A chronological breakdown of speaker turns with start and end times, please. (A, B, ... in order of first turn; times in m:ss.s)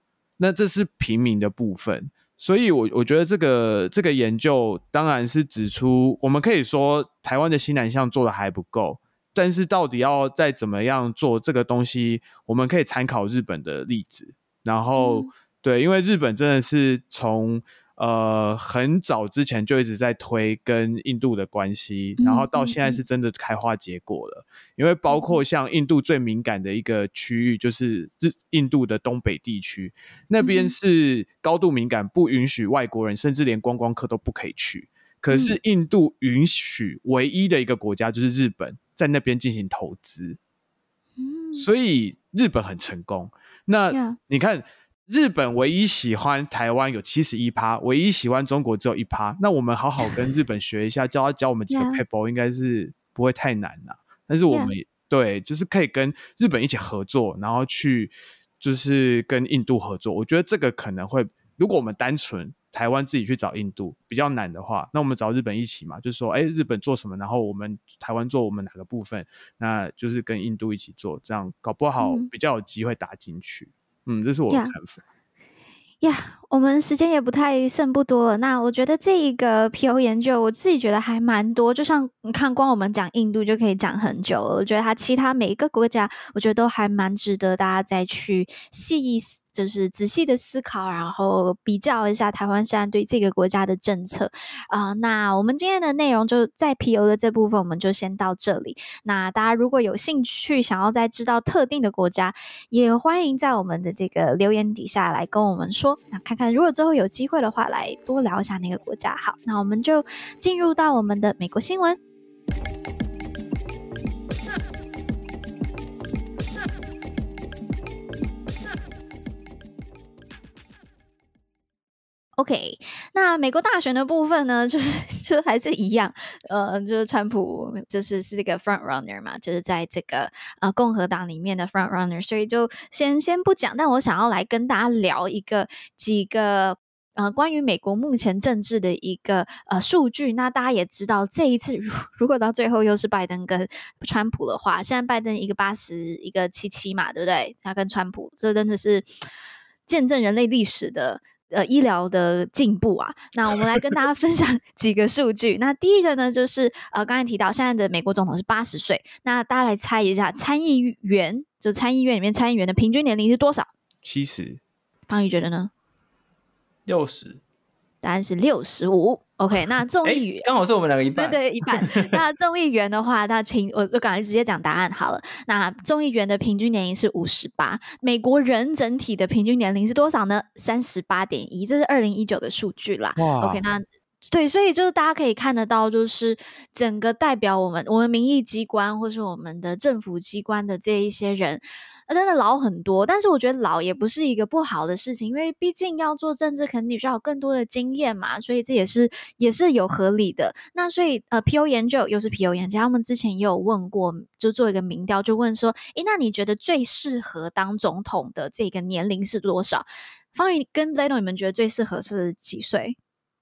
0:00.4-0:40.4 A
0:15.0-0:15.3 B
0:22.2-0:23.0 B
0:25.1-0:25.4 B
0:30.4-0:30.7 B
0:35.3-0:35.6 B
0:41.2-0:41.7 B
0:41.6-1:15.0 A
0:43.9-0:44.2 B
0:51.7-0:52.0 B
1:12.0-1:12.3 B
1:14.5-1:14.7 B
1:16.0-1:52.0 B
2:02.4-2:29.1 B
2:29.9-2:43.7 B
2:44.0-2:44.6 A
2:45.1-2:45.7 B
2:46.9-2:47.4 C
2:48.0-2:50.5 B
2:50.0-2:52.2 C
2:51.2-3:33.0 B
3:03.2-3:03.6 A